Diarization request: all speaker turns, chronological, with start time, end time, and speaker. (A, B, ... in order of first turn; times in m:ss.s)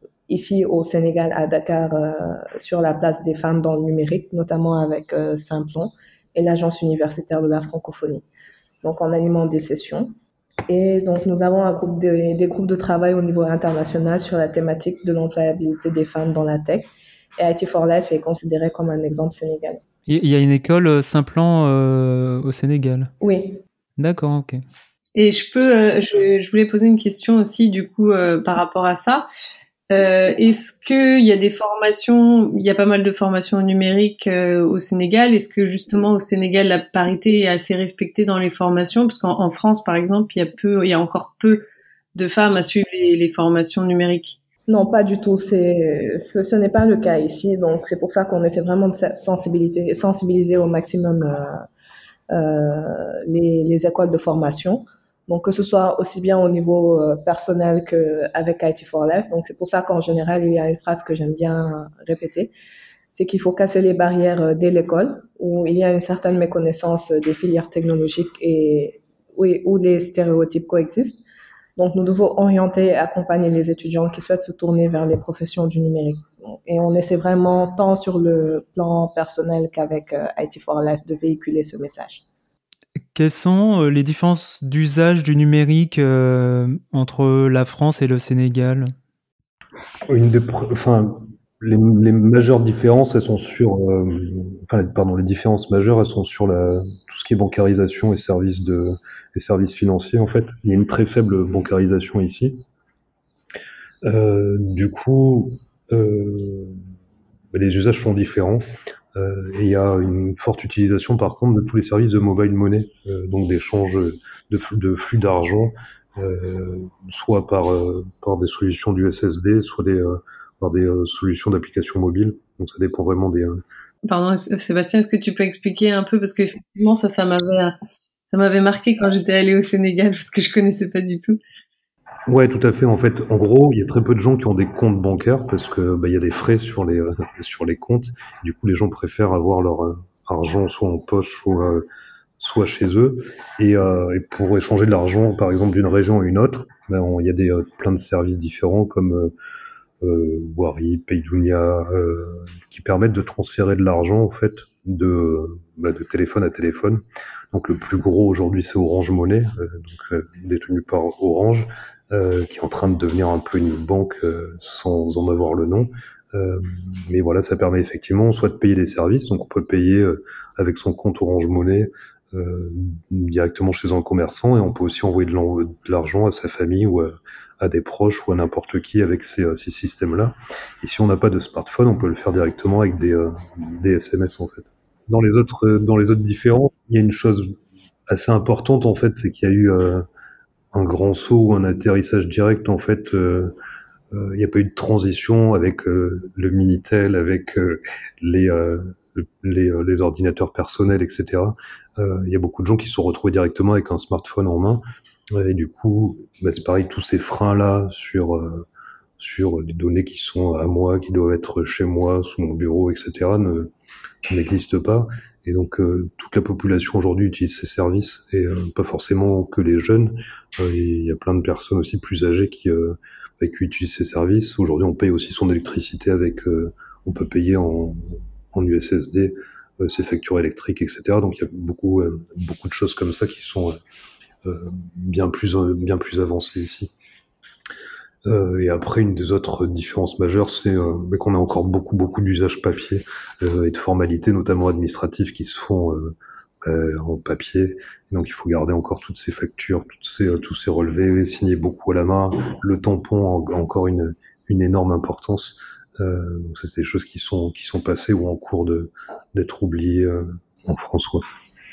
0:00.3-0:08.2 A
0:08.8-0:10.1 A
0:10.7-0:19.8 A
0:20.1-0:23.1 B
0:23.2-0:23.6 A
0:24.0-0:24.6 B
0:25.2-0:29.2 C
0:29.9-0:41.6 C
0:42.2-0:44.4 C
0:44.7-0:51.6 A
0:52.3-1:02.5 A
1:03.1-1:11.2 A
1:11.8-1:22.2 A
1:23.1-1:28.9 B
1:30.1-1:42.6 D
1:44.0-1:46.8 D
1:47.5-2:03.6 D
2:04.0-2:07.8 C
2:08.3-2:11.4 C
2:12.3-2:21.9 D
2:22.4-2:29.3 D
2:30.0-3:07.6 D
3:08.1-3:10.1 D
3:10.7-3:13.6 D
3:14.1-3:28.7 D
3:29.2-3:33.7 D
3:34.3-3:53.8 D
3:54.4-3:56.9 D
3:58.2-4:21.2 D